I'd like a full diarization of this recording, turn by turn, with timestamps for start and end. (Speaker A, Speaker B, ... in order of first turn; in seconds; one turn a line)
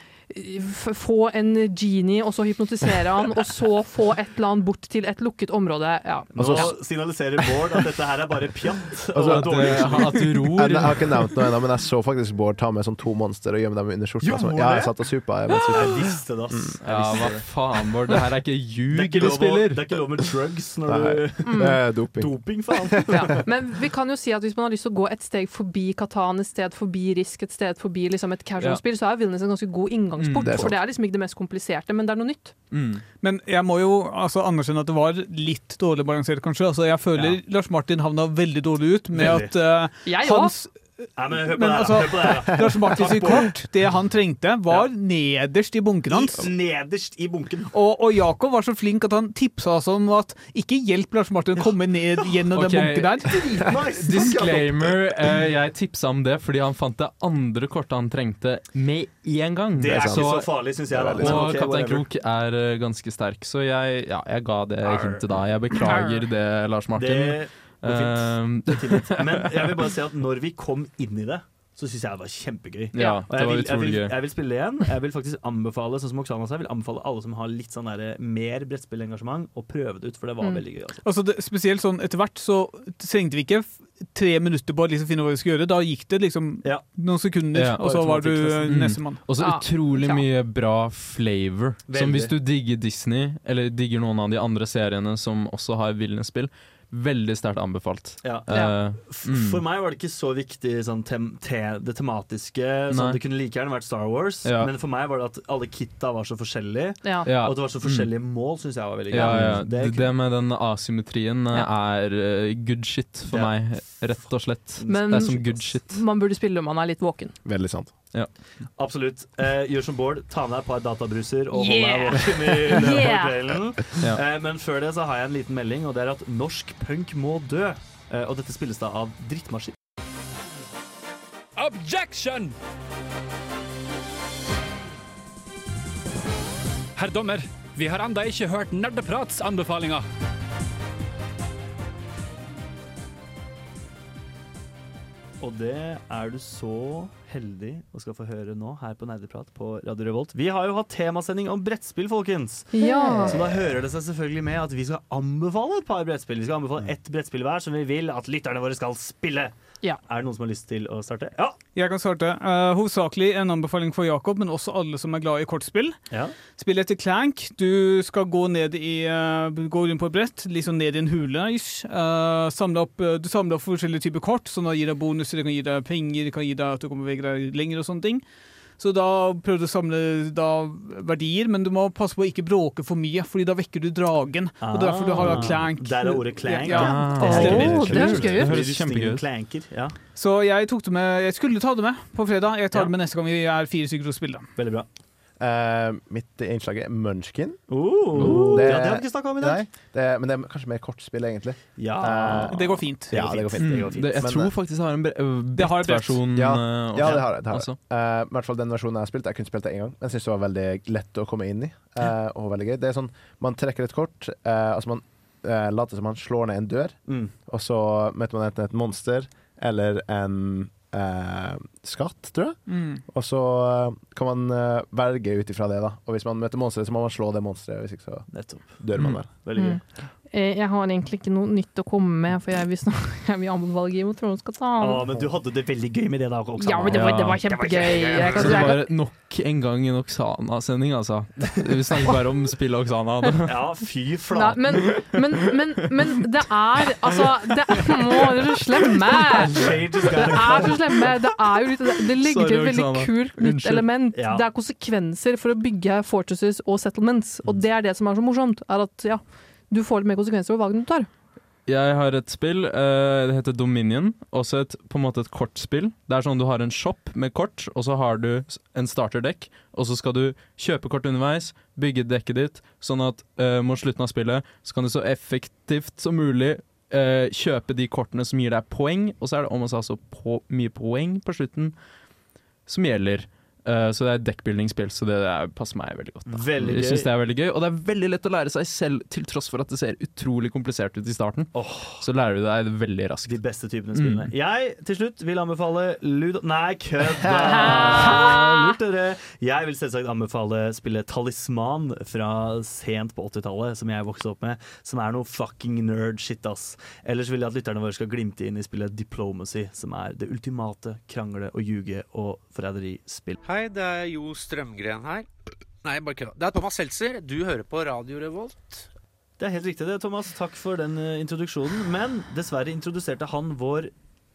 Speaker A: 0.3-6.7
Speaker B: 6.3-10.3
Speaker C: 6.3-7.3
Speaker C: 9.1-16.8
Speaker D: 9.2-11.3
Speaker B: 14.2-14.9
Speaker B: 15.7-17.6
Speaker D: 16.8-19.9
Speaker B: 18.9-23.4
Speaker C: 20.9-23.2
Speaker A: 21.4-21.8
Speaker A: 23.1-32.5
Speaker D: 30.2-30.7
Speaker C: 30.4-30.8
Speaker D: 32.7-33.0
Speaker E: 33.2-46.5
Speaker B: 37.1-37.4
Speaker B: 39.1-39.5
Speaker A: 40.0-40.5
Speaker B: 41.1-43.6
Speaker B: 46.1-47.7
Speaker E: 47.7-53.4
Speaker B: 51.5-52.3
Speaker D: 52.5-69.5
Speaker B: 53.3-55.0
Speaker B: 59.8-62.0
Speaker C: 59.8-61.5
Speaker B: 64.8-65.3
Speaker A: 65.8-66.2
Speaker B: 66.9-81.0
Speaker D: 72.9-74.1
Speaker A: 72.9-73.2
Speaker E: 81.0-89.2
Speaker D: 87.5-99.6
Speaker B: 87.8-88.5
Speaker A: 89.4-90.2
Speaker B: 91.9-92.3
Speaker B: 98.2-110.1
Speaker A: 98.5-98.8
Speaker D: 102.9-103.2
Speaker D: 104.4-104.7
Speaker D: 107.2-108.1
Speaker D: 109.1-116.0
Speaker C: 109.1-109.7
Speaker B: 113.3-114.2
Speaker A: 114.8-117.3
Speaker C: 117.4-117.9
Speaker B: 118.8-129.8
Speaker A: 121.5-123.4
Speaker F: 131.6-132.5
Speaker F: 136.9-140.0
Speaker B: 145.4-161.6
Speaker A: 152.7-153.4
Speaker E: 161.7-178.2
Speaker B: 166.1-166.4
Speaker E: 178.8-187.7
Speaker B: 184.6-189.9
Speaker D: 186.7-189.2
Speaker A: 186.8-188.5
Speaker C: 187.6-188.2
Speaker E: 190.1-194.5
Speaker B: 194.6-194.8
Speaker C: 195.4-204.5
Speaker B: 197.7-199.6
Speaker D: 198.2-198.8
Speaker B: 201.8-204.1
Speaker E: 202.0-203.2
Speaker D: 203.5-207.8
Speaker E: 205.5-206.2
Speaker C: 206.3-229.7
Speaker B: 207.0-207.2
Speaker B: 217.1-217.3
Speaker E: 222.7-223.0
Speaker B: 228.3-229.8
Speaker A: 229.5-235.0
Speaker B: 234.8-238.7
Speaker A: 236.6-238.8
Speaker D: 236.9-243.5
Speaker B: 243.4-244.9
Speaker A: 244.3-261.1
Speaker B: 249.5-250.8
Speaker D: 252.2-253.9
Speaker B: 254.1-254.4
Speaker D: 261.6-281.8
Speaker D: 282.6-294.3
Speaker B: 286.3-287.1
Speaker B: 291.5-292.1
Speaker B: 293.2-313.4
Speaker A: 297.4-298.7
Speaker G: 313.4-315.2
Speaker G: 315.8-318.8
Speaker B: 319.4-323.9